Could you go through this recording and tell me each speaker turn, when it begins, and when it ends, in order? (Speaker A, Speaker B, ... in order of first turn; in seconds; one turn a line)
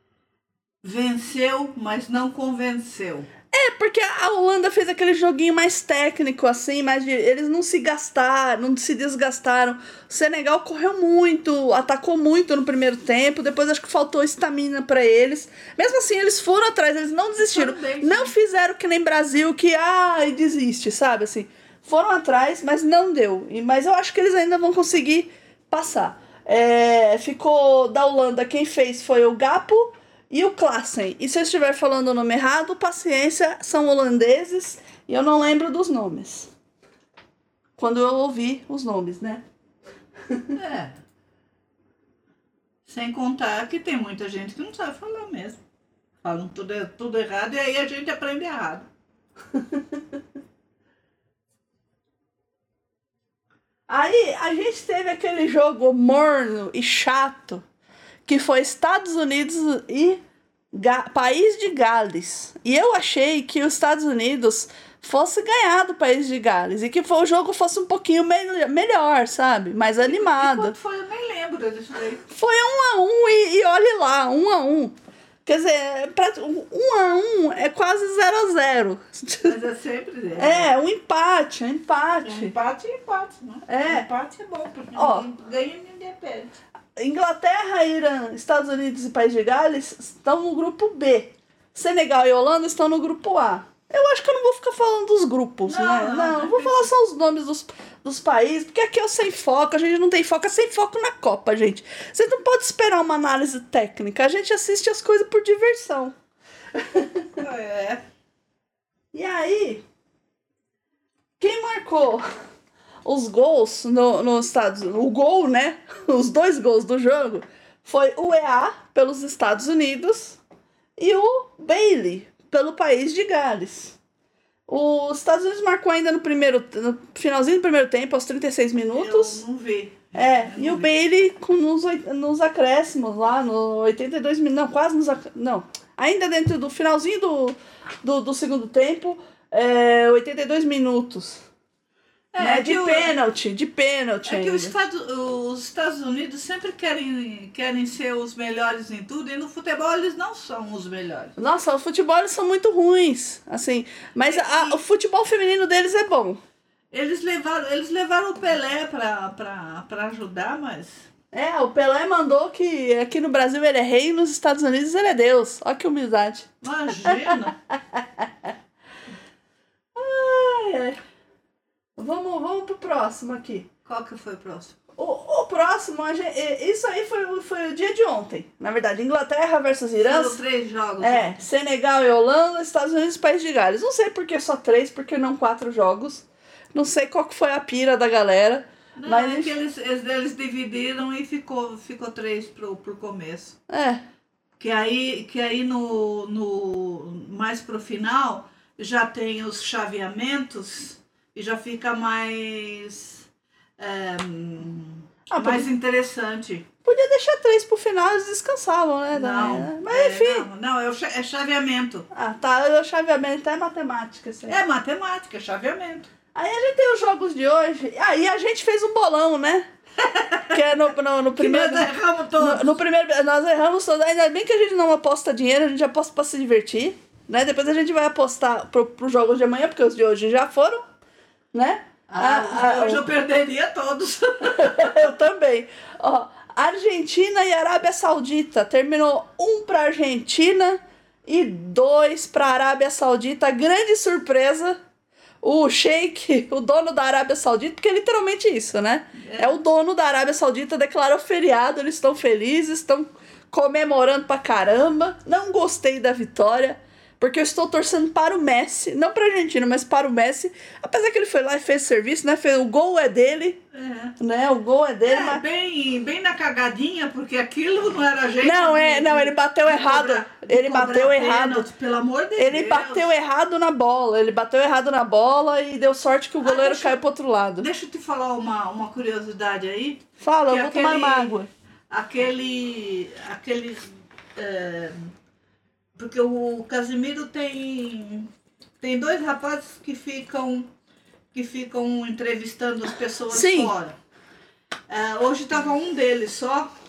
Speaker A: 0.8-3.3
Speaker B: 3.5-36.5
Speaker A: 17.4-18.3
Speaker B: 37.8-39.4
Speaker B: 40.3-40.5
Speaker A: 40.5-41.0
Speaker A: 42.9-45.6
Speaker A: 46.2-48.9
Speaker B: 49.5-50.0
Speaker B: 53.9-57.6
Speaker B: 58.2-60.2
Speaker B: 60.7-70.7
Speaker A: 70.0-72.2
Speaker B: 72.3-74.9
Speaker B: 75.5-79.6
Speaker A: 79.4-80.7
Speaker B: 80.4-82.5
Speaker A: 82.2-86.5
Speaker B: 83.7-84.0
Speaker B: 84.9-85.2
Speaker B: 87.0-106.1
Speaker A: 95.7-96.9
Speaker B: 106.7-107.3
Speaker A: 107.4-108.0
Speaker B: 109.1-109.8
Speaker B: 111.4-112.2
Speaker B: 113.0-120.4
Speaker B: 121.0-124.0
Speaker B: 124.7-129.4
Speaker A: 128.9-130.9
Speaker B: 130.1-141.4
Speaker A: 142.3-143.2
Speaker B: 142.4-144.7
Speaker A: 144.3-151.3
Speaker B: 151.4-156.4
Speaker A: 154.2-154.8
Speaker A: 156.9-161.0
Speaker B: 161.3-168.5
Speaker A: 166.6-167.5
Speaker B: 169.9-171.0
Speaker B: 172.0-173.7
Speaker A: 173.8-174.8
Speaker B: 174.9-180.4
Speaker A: 180.0-181.4
Speaker B: 181.0-189.5
Speaker A: 189.0-193.6
Speaker B: 193.7-194.0
Speaker A: 194.6-203.2
Speaker A: 203.8-206.7
Speaker B: 205.3-205.7
Speaker B: 206.8-210.5
Speaker A: 209.1-212.1
Speaker B: 212.1-214.6
Speaker A: 214.5-216.1
Speaker B: 216.3-219.7
Speaker A: 220.0-220.6
Speaker B: 220.5-230.8
Speaker A: 221.3-222.8
Speaker B: 231.5-233.1
Speaker A: 232.1-235.1
Speaker B: 234.4-244.8
Speaker B: 245.4-263.6
Speaker A: 249.2-249.6
Speaker A: 263.7-264.1
Speaker B: 264.2-265.4
Speaker A: 265.0-273.1
Speaker B: 268.4-271.7
Speaker B: 272.4-277.7
Speaker A: 276.4-277.0
Speaker A: 277.6-281.3
Speaker B: 280.2-281.5
Speaker A: 281.9-285.1
Speaker A: 285.9-288.3
Speaker A: 288.8-290.7
Speaker A: 291.3-293.9
Speaker B: 293.3-293.7
Speaker A: 294.9-296.7